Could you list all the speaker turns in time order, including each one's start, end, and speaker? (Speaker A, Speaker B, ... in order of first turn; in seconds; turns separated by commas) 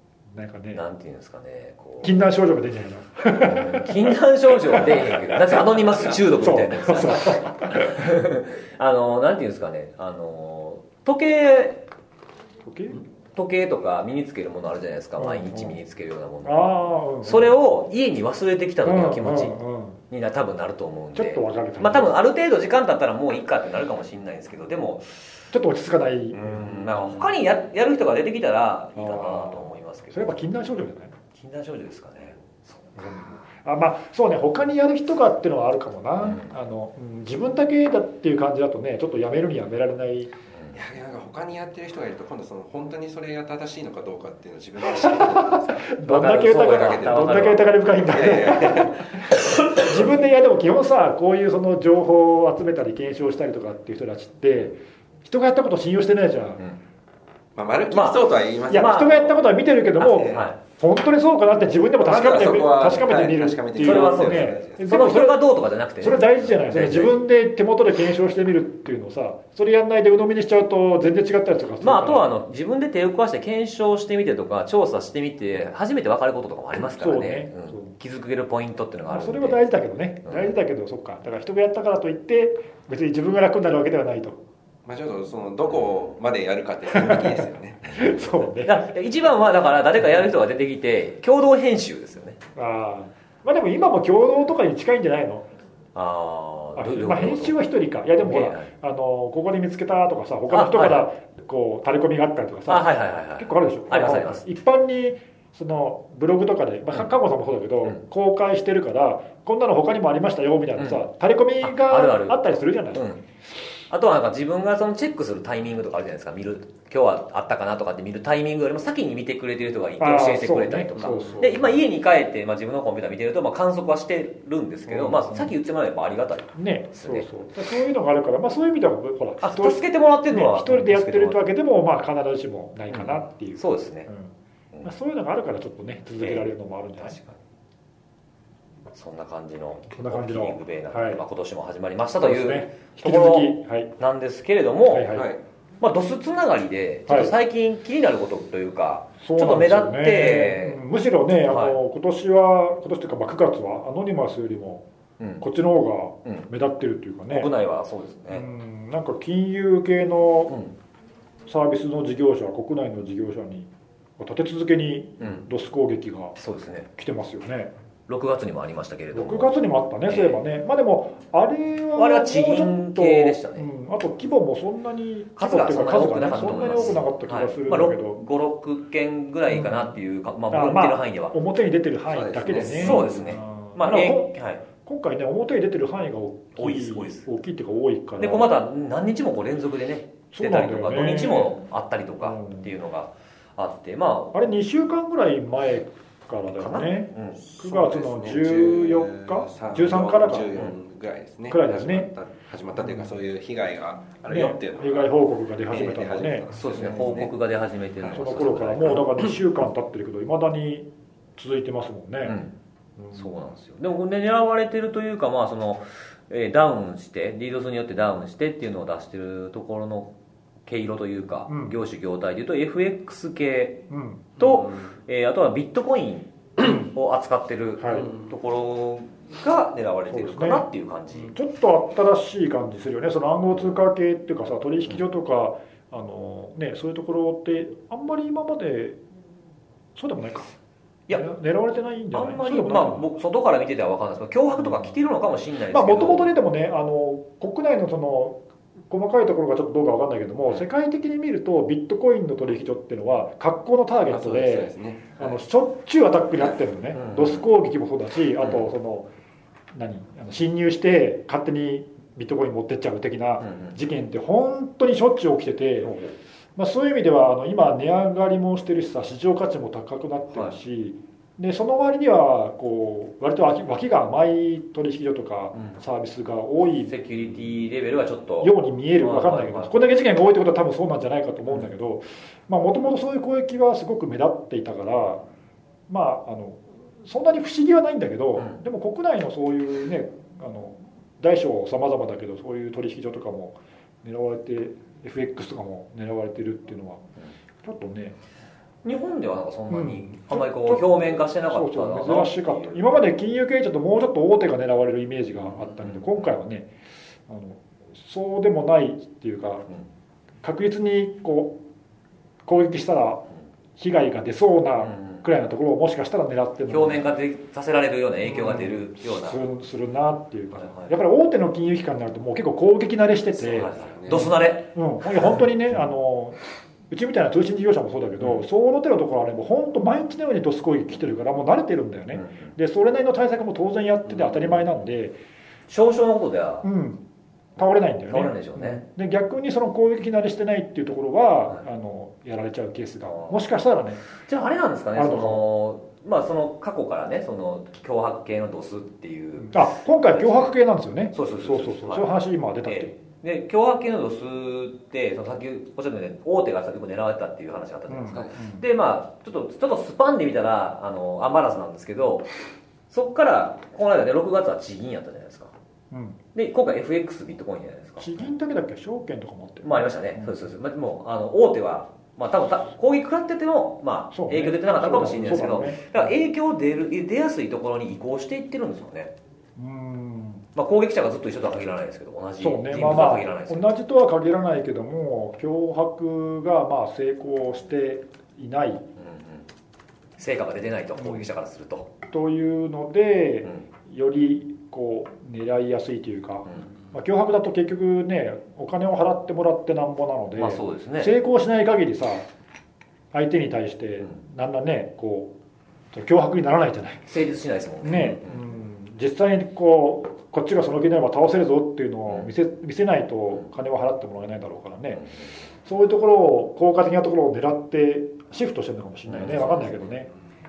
Speaker A: 0.3-0.8, Speaker B: 0.7-2.2, Speaker A: 2.0-5.6, Speaker B: 3.3-11.9, Speaker A: 6.3-8.0, Speaker A: 12.7-13.0, Speaker B: 13.3-16.7, Speaker A: 15.2-15.8, Speaker A: 16.4-17.5, Speaker B: 17.2-19.6, Speaker A: 18.8-20.0, Speaker B: 20.1-25.3, Speaker A: 21.1-22.1, Speaker A: 25.5-26.7, Speaker B: 26.3-30.4, Speaker A: 28.9-31.1, Speaker B: 31.3-32.9, Speaker A: 33.0-40.3, Speaker B: 36.2-36.5, Speaker C: 40.7-45.9, Speaker A: 44.9-56.6, Speaker B: 46.0-47.7, Speaker C: 46.5-49.3, Speaker C: 57.5-59.1, Speaker B: 57.9-59.3, Speaker A: 58.7-65.4, Speaker B: 60.0-60.6, Speaker C: 60.0-60.5, Speaker C: 62.0-65.0, Speaker B: 63.8-67.2, Speaker A: 66.0-72.3, Speaker B: 71.8-79.6, Speaker A: 76.8-77.9, Speaker A: 79.1-84.4, Speaker C: 84.8-87.9, Speaker A: 86.9-88.8, Speaker B: 88.6-92.4, Speaker A: 92.5-95.5, Speaker B: 95.9-97.6, Speaker A: 96.7-113.1, Speaker B: 98.2-98.7, Speaker B: 100.5-101.1, Speaker B: 102.7-104.4, Speaker B: 110.8-111.0, Speaker B: 111.6-112.4, Speaker B: 112.9-113.2, Speaker B: 113.9-127.3, Speaker A: 120.0-121.8, Speaker A: 124.9-125.5, Speaker A: 126.5-137.2, Speaker B: 129.4-131.4, Speaker B: 132.9-134.1, Speaker B: 136.2-137.4, Speaker B: 138.9-145.1, Speaker A: 139.9-141.2, Speaker A: 142.2-143.9, Speaker A: 144.9-145.3, Speaker C: 145.1-145.4, Speaker B: 145.8-150.8, Speaker A: 147.1-147.3, Speaker A: 149.2-154.8, Speaker B: 151.5-151.8, Speaker B: 155.2-155.4, Speaker A: 155.4-157.5, Speaker B: 157.3-158.4, Speaker A: 158.3-160.6, Speaker B: 160.5-160.7, Speaker A: 161.5-166.3, Speaker B: 166.4-166.9, Speaker A: 166.9-167.7, Speaker B: 168.1-169.5, Speaker A: 169.1-178.2, Speaker B: 170.1-170.4, Speaker B: 171.9-173.7, Speaker B: 175.4-181.3, Speaker A: 179.5-179.9, Speaker A: 180.5-188.5, Speaker C: 182.1-183.3, Speaker B: 182.6-184.6, Speaker B: 186.6-187.2, Speaker B: 188.2-194.3, Speaker A: 190.3-191.6, Speaker A: 192.2-192.7, Speaker A: 194.3-200.7, Speaker B: 196.6-197.4, Speaker C: 197.4-205.1, Speaker A: 201.5-202.1, Speaker A: 204.3-206.4, Speaker C: 205.7-207.3, Speaker B: 206.5-209.1, Speaker A: 208.1-212.4, Speaker B: 212.2-212.5, Speaker A: 213.0-213.3, Speaker B: 213.1-220.1, Speaker B: 220.7-223.8, Speaker A: 221.5-221.8, Speaker A: 223.9-224.3, Speaker B: 224.4-231.3, Speaker A: 226.6-226.9, Speaker A: 227.8-228.1, Speaker A: 230.1-239.0, Speaker A: 239.9-240.6, Speaker A: 241.1-243.1, Speaker B: 242.1-246.3, Speaker A: 245.7-259.1, Speaker C: 254.1-255.2, Speaker B: 256.9-257.4, Speaker A: 259.7-265.9, Speaker B: 263.4-263.8, Speaker B: 265.8-266.1, Speaker A: 266.6-276.9, Speaker B: 276.9-279.7, Speaker A: 278.4-285.2, Speaker A: 285.9-297.1, Speaker A: 297.6-298.2, Speaker B: 298.8-302.9, Speaker A: 299.7-306.7, Speaker B: 305.8-306.2, Speaker A: 307.3-309.7, Speaker A: 310.4-311.6, Speaker A: 312.4-313.2, Speaker A: 313.8-317.1, Speaker B: 314.8-315.2, Speaker B: 316.7-319.4, Speaker A: 318.2-326.4, Speaker B: 320.6-320.9, Speaker B: 323.4-325.4, Speaker C: 323.8-324.2, Speaker A: 326.9-335.1, Speaker B: 332.1-332.5, Speaker B: 334.2-334.6, Speaker B: 335.7-336.6, Speaker A: 336.6-337.0, Speaker A: 337.6-344.0, Speaker B: 338.1-338.8, Speaker B: 344.1-350.5, Speaker A: 344.9-345.4, Speaker A: 349.4-352.9, Speaker B: 351.1-352.1, Speaker B: 352.6-362.3, Speaker A: 357.9-358.6, Speaker B: 362.9-365.5, Speaker A: 365.9-366.2, Speaker B: 366.3-368.3, Speaker A: 368.0-370.4, Speaker B: 369.6-379.1, Speaker A: 374.1-376.1, Speaker A: 379.6-380.4, Speaker B: 380.5-383.7, Speaker A: 382.4-388.9, Speaker B: 389.0-389.4, Speaker B: 390.2-391.9, Speaker A: 391.0-391.3, Speaker A: 392.1-402.3, Speaker B: 400.4-401.1, Speaker A: 403.1-405.3, Speaker A: 405.9-407.1, Speaker B: 407.1-408.4, Speaker A: 407.8-415.1, Speaker A: 415.6-420.1, Speaker B: 419.1-419.9